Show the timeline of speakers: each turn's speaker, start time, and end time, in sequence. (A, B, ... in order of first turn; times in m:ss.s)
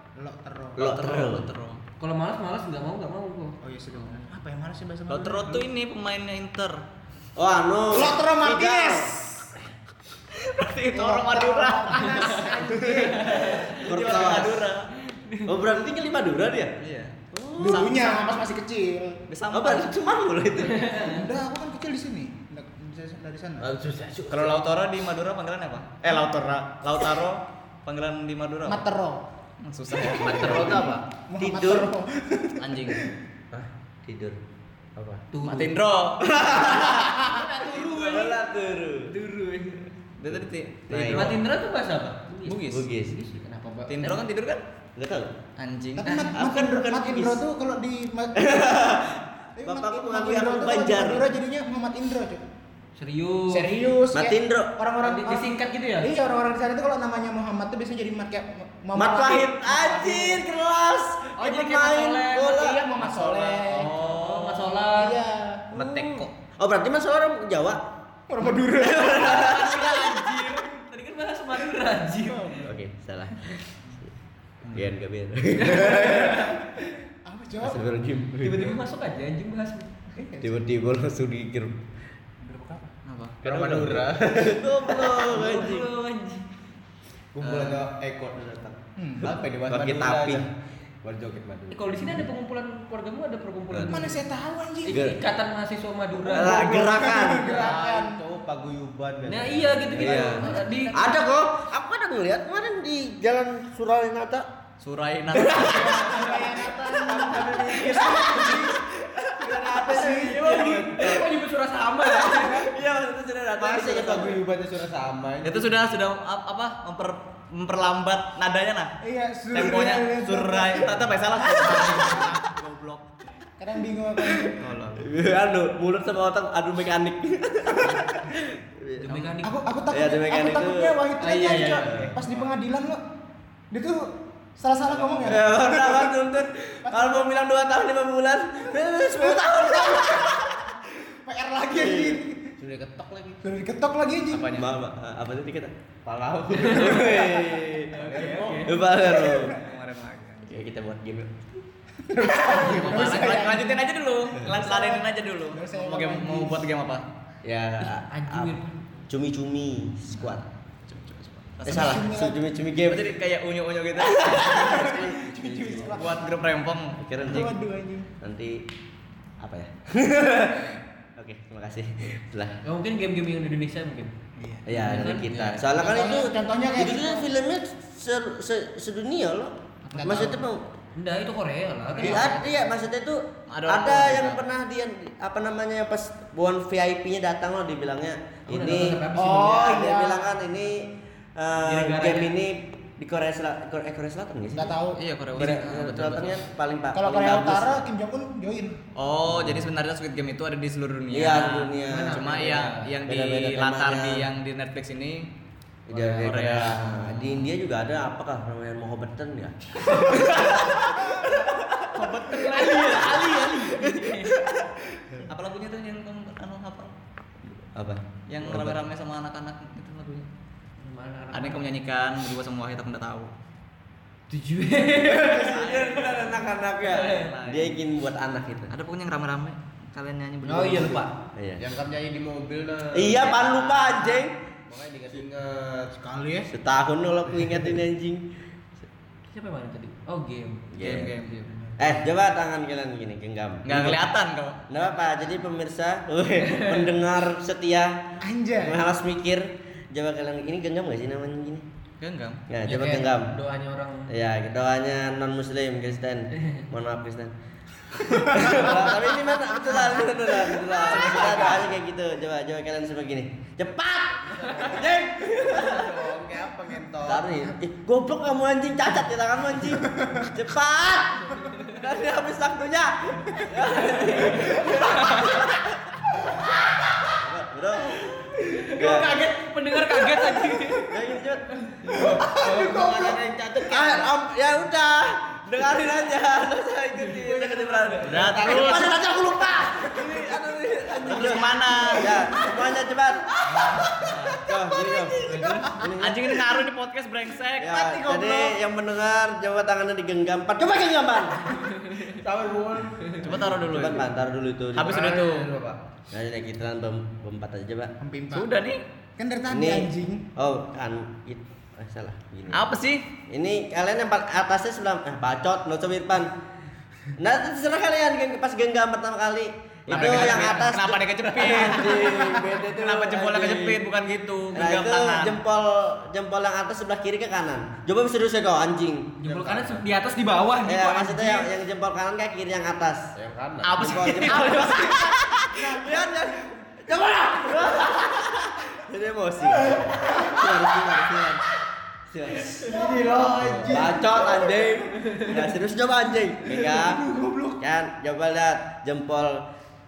0:00.2-0:00.9 A
0:00.8-0:01.5 B
0:00.8-0:01.8 C
0:02.0-0:03.6 D
0:03.6-0:05.6 A
0:05.1-0:06.8 C
0:07.4-0:09.1 B
0:07.9-0:09.5 A
0:10.3-0:14.9 C
0:10.9-0:14.5 A
0:13.2-0:14.7 B
0:15.1-0:15.5 D
0:15.4-0:16.7 B
0:16.8-0:18.4 C
0:17.3-0:17.9 B
0:17.6-0:19.2 A
0:19.3-0:19.9 C
0:19.5-0:20.9 B
0:20.6-0:21.2 D
0:21.0-0:23.7 A
0:23.6-0:24.6 E
0:24.3-0:28.8 C
0:28.7-0:29.2 A
0:29.6-0:30.9 C
0:30.0-0:31.0 E
0:30.2-0:31.0 D
0:30.2-0:33.1 A
0:31.4-0:31.9 B
0:32.6-0:33.0 C
0:34.0-0:34.4 B
0:35.0-0:35.2 E
0:35.3-0:35.8 D
0:35.4-0:36.2 C
0:36.2-0:39.1 B
0:36.5-0:38.4 D
0:39.1-0:39.8 D
0:40.2-0:41.4 C
0:40.9-0:41.3 B
0:41.1-0:44.2 D
0:42.4-0:42.8 C
0:42.7-0:43.2 B
0:43.9-0:44.6 C
0:45.0-0:45.3 B
0:45.6-0:46.3 C
0:46.0-0:48.6 A
0:46.0-0:46.3 D
0:46.3-0:47.4 B
0:48.4-0:51.3 B
0:49.6-0:52.4 A
0:53.0-0:53.8 D
0:53.5-1:00.4 A
0:54.1-0:54.7 B
0:55.0-0:56.1 D
0:58.9-1:03.7 B
1:01.4-1:02.6 D
1:02.5-1:03.9 A
1:03.6-1:04.8 C
1:03.8-1:05.2 D
1:04.9-1:05.7 A
1:05.7-1:06.3 E
1:05.8-1:06.2 D
1:06.6-1:07.8 B
1:08.3-1:09.7 A
1:08.8-1:10.1 B
1:09.1-1:12.6 D
1:12.3-1:12.7 A
1:12.6-1:13.6 B
1:14.6-1:14.9 C
1:14.7-1:16.6 B
1:15.6-1:16.5 D
1:17.2-1:17.8 A
1:17.6-1:18.8 B
1:18.4-1:19.9 D
1:20.1-1:20.5 A
1:20.4-1:21.8 B
1:22.4-1:22.8 A
1:23.0-1:23.5 C
1:23.4-1:24.6 E
1:24.2-1:25.9 B
1:24.9-1:26.4 D
1:27.3-1:30.5 E
1:27.4-1:27.8 C
1:29.0-1:29.3 A
1:29.2-1:30.5 B
1:31.0-1:31.8 E
1:31.7-1:34.2 D
1:33.7-1:34.0 B
1:33.9-1:35.0 A
1:34.8-1:36.9 D
1:34.9-1:35.2 B
1:36.2-1:37.6 B
1:36.4-1:38.2 A
1:37.4-1:40.5 E
1:39.2-1:41.1 D
1:40.0-1:44.5 B
1:44.8-1:46.4 C
1:45.3-1:50.7 A
1:46.3-1:48.7 E
1:49.3-1:51.3 B
1:49.7-1:51.1 E
1:50.3-1:50.8 C
1:50.4-1:52.7 D
1:52.1-1:54.4 B
1:53.6-1:55.8 E
1:55.4-1:58.9 C
1:59.0-2:02.4 A
1:59.5-2:03.2 C
2:03.6-2:04.6 A
2:04.4-2:05.0 C
2:05.0-2:09.0 B
2:09.0-2:09.6 D
2:09.4-2:13.0 A
2:09.9-2:11.0 B
2:11.2-2:12.1 C
2:11.8-2:12.1 B
2:13.7-2:16.1 A
2:15.2-2:20.6 B
2:16.8-2:17.3 A
2:18.9-2:22.5 A
2:21.8-2:22.2 B
2:22.6-2:23.4 E
2:23.4-2:24.5 A
2:24.3-2:24.7 C
2:24.5-2:25.7 B
2:26.0-2:28.8 E
2:26.5-2:28.0 B
2:26.6-2:27.1 D
2:27.9-2:28.8 D
2:28.6-2:29.6 B
2:29.2-2:30.5 C
2:29.2-2:29.5 A
2:30.4-2:31.4 B
2:32.0-2:33.8 A
2:32.4-2:37.0 C
2:34.4-2:36.6 A
2:37.4-2:38.5 B
2:37.8-2:38.8 D
2:39.1-2:40.4 B
2:40.2-2:42.0 C
2:41.6-2:43.2 B
2:41.6-2:42.4 A
2:42.9-2:45.0 C
2:44.1-2:46.2 B
2:44.4-2:46.4 A
2:45.8-2:47.4 C
2:47.0-2:47.6 B
2:47.2-2:48.1 A
2:48.2-2:48.6 B
2:49.4-2:52.6 B
2:52.6-2:54.1 D
2:54.4-2:54.6 A
2:54.6-3:00.7 B
2:54.7-2:55.7 D
2:55.7-2:57.3 A
2:59.9-3:00.2 C
3:00.0-3:00.4 A
3:00.9-3:02.4 D
3:01.9-3:14.8 B
3:03.5-3:04.4 C
3:08.5-3:09.6 D
3:09.1-3:10.3 A
3:11.6-3:12.3 D
3:14.6-3:15.0 A
3:15.0-3:16.4 C
3:15.3-3:17.8 B
3:16.9-3:18.8 A
3:19.0-3:25.3 C
3:19.3-3:19.7 B
3:21.1-3:24.3 B
3:21.9-3:22.9 D
3:25.9-3:31.8 B
3:26.1-3:27.2 C
3:30.1-3:30.6 C
3:31.9-3:33.7 C
3:32.0-3:34.4 D
3:34.0-3:34.7 B
3:35.3-3:36.9 C
3:37.7-3:38.8 B
3:38.3-3:40.3 C
3:40.8-3:41.6 D
3:41.3-3:43.3 C
3:44.3-3:45.5 D
3:44.9-3:48.7 B
3:45.2-3:47.8 C
3:46.8-3:47.3 D
3:48.7-3:51.0 C
3:50.4-3:51.1 D
3:51.3-3:51.6 B
3:51.6-3:56.0 E
3:52.9-3:54.4 B
3:56.0-3:56.5 A
3:56.5-3:58.2 B
3:59.3-4:00.7 D
4:00.7-4:01.2 B
4:00.8-4:01.4 C
4:01.2-4:01.7 D
4:01.8-4:04.1 B
4:03.6-4:04.6 C
4:04.7-4:11.6 B
4:06.5-4:06.8 D
4:08.2-4:08.8 A
4:12.0-4:12.4 C
4:12.5-4:13.3 B
4:12.6-4:14.1 D
4:14.1-4:17.3 B
4:18.0-4:25.8 B
4:18.4-4:18.7 A
4:20.8-4:21.7 C
4:24.2-4:27.4 E
4:27.0-4:36.0 B
4:33.8-4:35.4 D
4:36.5-4:36.8 D
4:37.1-4:39.2 B
4:38.4-4:40.9 D
4:40.8-4:56.4 B
4:42.0-4:42.6 A
4:42.0-4:44.1 E
4:47.1-4:48.0 D
4:48.0-4:48.9 C
4:48.0-4:49.0 E
4:50.0-4:51.4 E
4:51.0-4:52.2 C
4:53.9-4:54.4 C
4:55.2-4:55.7 E
4:55.3-4:58.5 C
4:57.6-5:01.6 B
5:01.6-5:02.0 D
5:02.0-5:03.9 E
5:03.2-5:04.0 C
5:03.4-5:05.1 B
5:04.7-5:05.5 C
5:04.8-5:05.8 E
5:06.1-5:07.9 B
5:08.0-5:08.5 A
5:08.3-5:08.8 C
5:09.2-5:10.2 A
5:09.5-5:12.7 B
5:12.5-5:13.0 C
5:13.3-5:16.3 B
5:17.2-5:23.8 B
5:19.9-5:25.4 C
5:19.9-5:20.7 D
5:24.5-5:29.2 B
5:29.2-5:31.5 D
5:29.2-5:29.8 E
5:30.6-5:33.1 B
5:33.1-5:34.3 E
5:33.6-5:35.2 C
5:33.8-5:41.4 B
5:34.3-5:35.0 A
5:35.5-5:36.1 A
5:39.9-5:40.4 A
5:42.1-5:42.8 B
5:42.3-5:44.5 A
5:42.8-5:43.9 E
5:43.6-5:47.0 B
5:46.4-5:47.6 A
5:47.6-5:49.4 B